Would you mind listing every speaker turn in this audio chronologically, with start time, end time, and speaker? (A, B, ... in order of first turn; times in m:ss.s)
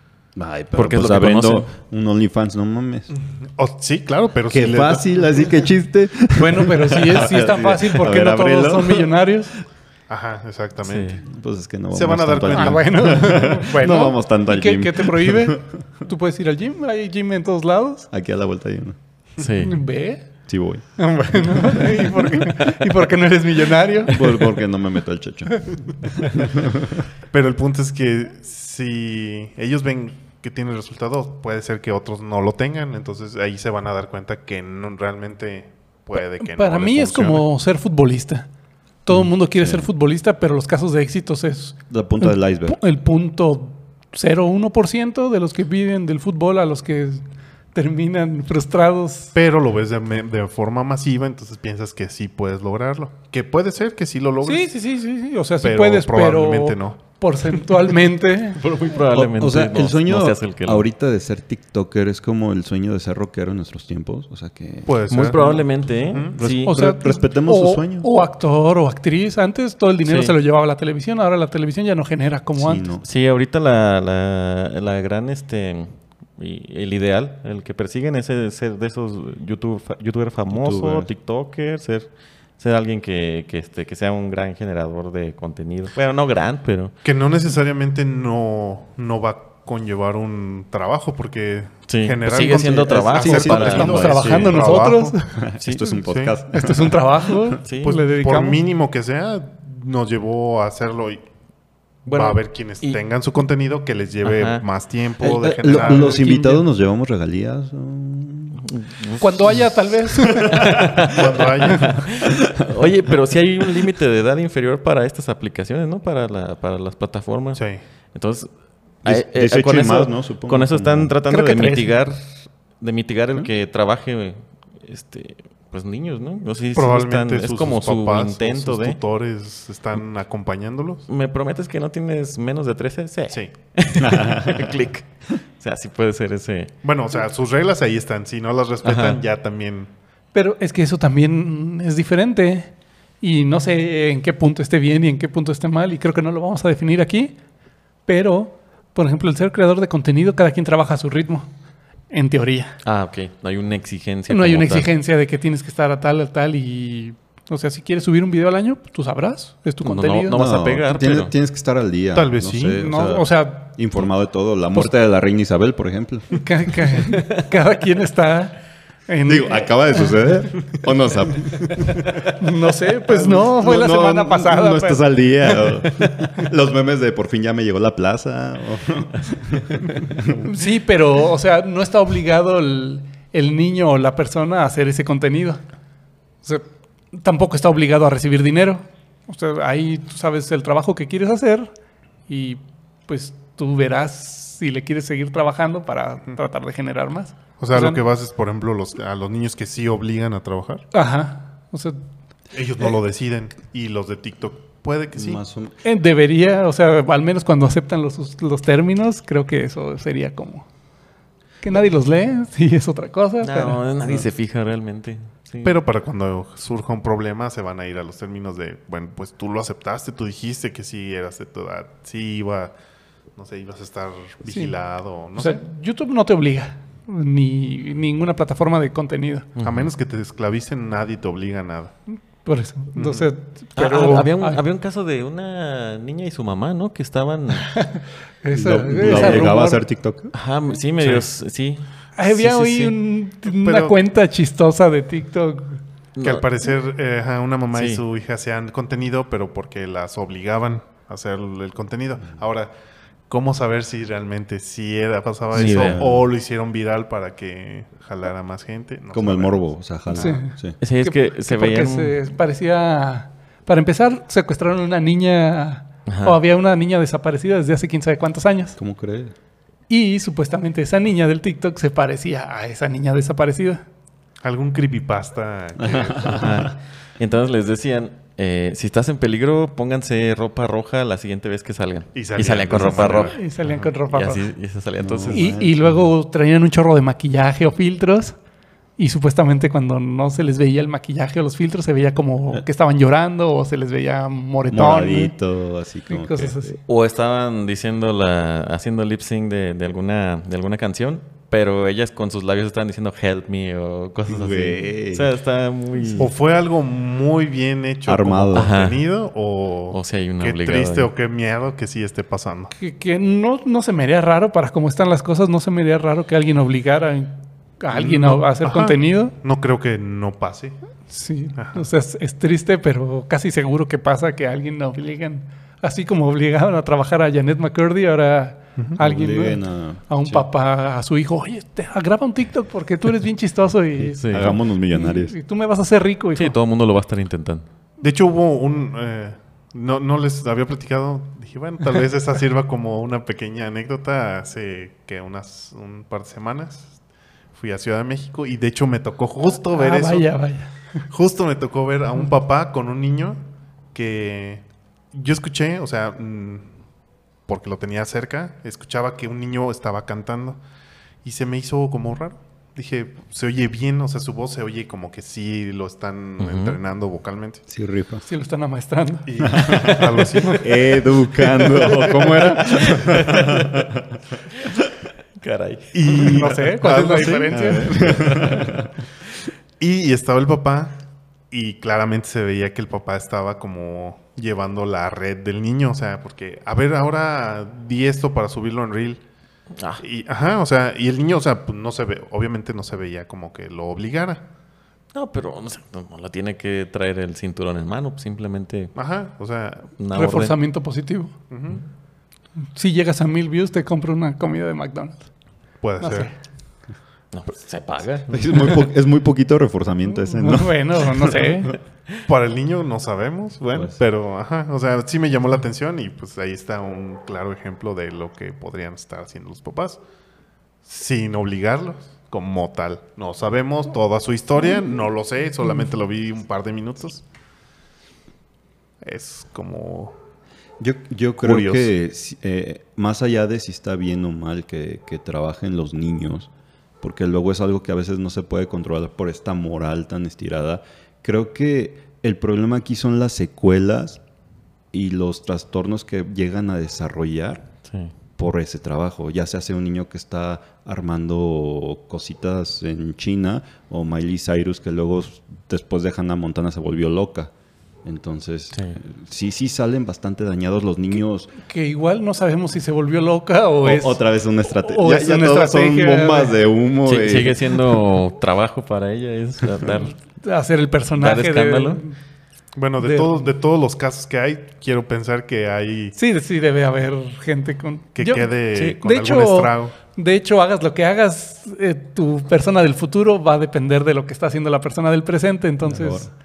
0:00.4-0:03.1 A
0:00.8-0:01.7 B
0:03.1-0:05.5 C
0:04.5-0:09.2 A
0:06.4-0:09.5 D
0:10.1-0:11.2 C
0:10.8-0:11.2 B
0:11.3-0:15.8 A
0:11.9-0:13.0 C
0:12.5-0:18.1 D
0:18.1-0:19.0 A
0:19.4-0:19.8 B
0:19.6-0:20.3 D
0:20.5-0:22.4 A
0:21.0-0:24.6 D
0:24.1-0:27.0 A
0:27.3-0:37.5 C
0:36.4-0:38.5 D
0:39.0-0:47.2 D
0:39.1-0:39.9 A
0:41.9-0:42.8 A
0:47.7-0:49.4 D
0:49.4-0:54.7 C
0:54.4-0:58.6 D
0:55.6-0:57.0 C
0:58.5-1:00.9 B
0:59.1-1:05.5 A
1:04.9-1:06.4 C
1:05.1-1:06.8 B
1:06.4-1:08.1 A
1:06.6-1:12.9 D
1:10.0-1:10.4 B
1:12.6-1:13.0 A
1:13.0-1:27.0 B
1:20.5-1:21.1 A
1:27.0-1:35.2 C
1:31.9-1:34.5 B
1:33.0-1:34.8 A
1:33.2-1:35.4 D
1:35.3-1:37.6 A
1:35.6-1:36.0 B
1:36.0-1:36.4 C
1:36.5-1:38.6 D
1:37.6-1:38.0 B
1:37.8-1:41.2 C
1:42.1-1:43.0 B
1:42.1-1:46.3 C
1:44.2-1:44.6 B
1:45.2-1:48.6 A
1:45.9-1:46.6 D
1:48.6-1:49.6 B
1:49.2-1:50.8 D
1:49.5-1:51.1 A
1:50.5-1:58.5 B
1:51.0-1:52.1 C
1:52.6-1:52.9 A
1:57.6-1:57.8 C
1:59.0-2:09.0 B
1:59.0-2:01.1 A
2:01.3-2:02.0 D
2:06.8-2:11.0 C
2:11.1-2:16.7 B
2:14.0-2:14.8 A
2:16.8-2:19.9 C
2:18.8-2:19.2 B
2:20.3-2:27.4 D
2:28.1-2:31.5 D
2:32.1-2:32.8 D
2:32.8-2:34.9 B
2:34.3-2:40.4 D
2:39.8-2:41.3 B
2:40.3-2:46.5 A
2:42.1-2:42.8 C
2:42.7-2:43.8 D
2:46.3-2:50.3 D
2:49.3-2:52.2 A
2:52.4-2:55.1 D
2:53.0-3:00.5 A
3:00.4-3:05.6 D
3:06.4-3:11.7 D
3:12.3-3:18.0 D
3:17.6-3:20.9 C
3:20.9-3:22.0 D
3:22.5-3:25.4 C
3:25.1-3:25.8 A
3:25.8-3:30.7 D
3:31.6-3:33.8 D
3:33.4-3:35.8 B
3:35.6-3:42.7 C
3:43.4-3:45.6 C
3:44.5-3:44.8 D
3:45.4-3:49.5 D
3:49.6-3:49.9 B
3:49.6-3:52.0 C
3:52.4-3:54.6 D
3:53.0-3:53.3 C
3:53.8-3:57.8 B
3:57.7-3:59.8 D
3:58.5-4:00.3 A
3:59.0-3:59.5 B
4:00.3-4:03.0 B
4:01.0-4:01.2 C
4:02.2-4:05.8 D
4:03.5-4:04.0 C
4:06.2-4:06.4 B
4:06.2-4:12.7 C
4:07.7-4:08.0 B
4:13.3-4:19.6 C
4:15.5-4:16.0 B
4:15.5-4:16.3 A
4:19.1-4:20.8 A
4:20.2-4:28.8 D
4:20.8-4:22.2 B
4:26.1-4:26.4 B
4:28.8-4:29.3 A
4:29.9-4:33.8 D
4:34.4-4:36.7 C
4:35.8-4:36.7 A
4:36.4-4:43.4 B
4:42.1-4:43.4 C
4:42.8-4:44.5 D
4:44.1-4:45.6 B
4:45.0-4:46.1 A
4:45.3-4:48.4 D
4:49.0-4:55.3 D
4:54.7-4:56.8 A
4:56.1-4:56.8 D
4:56.9-5:06.3 B
5:04.3-5:05.3 A
5:06.2-5:12.7 C
5:08.1-5:08.7 A
5:08.5-5:09.0 B
5:09.9-5:11.1 B
5:12.8-5:19.3 D
5:17.9-5:20.8 C
5:21.1-5:36.6 D
5:21.6-5:21.8 C
5:29.0-5:30.4 A
5:34.2-5:34.6 B
5:34.2-5:35.4 A
5:36.4-5:37.7 B
5:38.0-5:47.0 C
5:47.5-5:50.3 C
5:49.6-5:51.0 D
5:51.1-5:53.4 C
5:53.9-5:56.7 C
5:57.5-6:00.6 C
6:01.2-6:07.6 C
6:06.4-6:06.8 B
6:07.7-6:08.2 A
6:08.2-6:09.3 D
6:09.3-6:12.4 C
6:09.4-6:14.2 A
6:12.6-6:13.9 B
6:15.4-6:16.4 B
6:15.9-6:18.6 C
6:16.2-6:18.1 D
6:17.5-6:18.9 A
6:19.8-6:29.2 C
6:29.8-6:30.0 B
6:30.0-6:34.5 C
6:35.1-6:39.0 B
6:39.0-6:39.9 C
6:40.0-6:40.6 B
6:40.1-6:41.3 D
6:41.5-6:41.8 C
6:42.8-6:45.3 D
6:45.8-6:46.3 C
6:46.0-6:46.4 D
6:47.3-6:48.7 B
6:48.3-6:51.6 A
6:50.1-6:51.8 D
6:52.3-7:00.0 C
6:53.7-6:54.0 A
7:00.9-7:07.2 C
7:09.0-7:10.2 C
7:10.8-7:16.5 A
7:11.4-7:11.9 C
7:17.0-7:24.2 A
7:24.9-7:27.7 A
7:27.9-7:28.1 B
7:28.4-7:37.5 A
7:38.0-7:41.5 A
7:41.6-7:46.6 D
7:43.8-7:48.0 A
7:47.1-7:50.2 B
7:50.2-7:52.2 D
7:51.2-7:52.0 B
7:52.8-7:56.2 C
7:53.0-7:53.5 D
7:56.2-8:06.3 D
7:58.2-7:59.9 C
8:05.8-8:06.3 A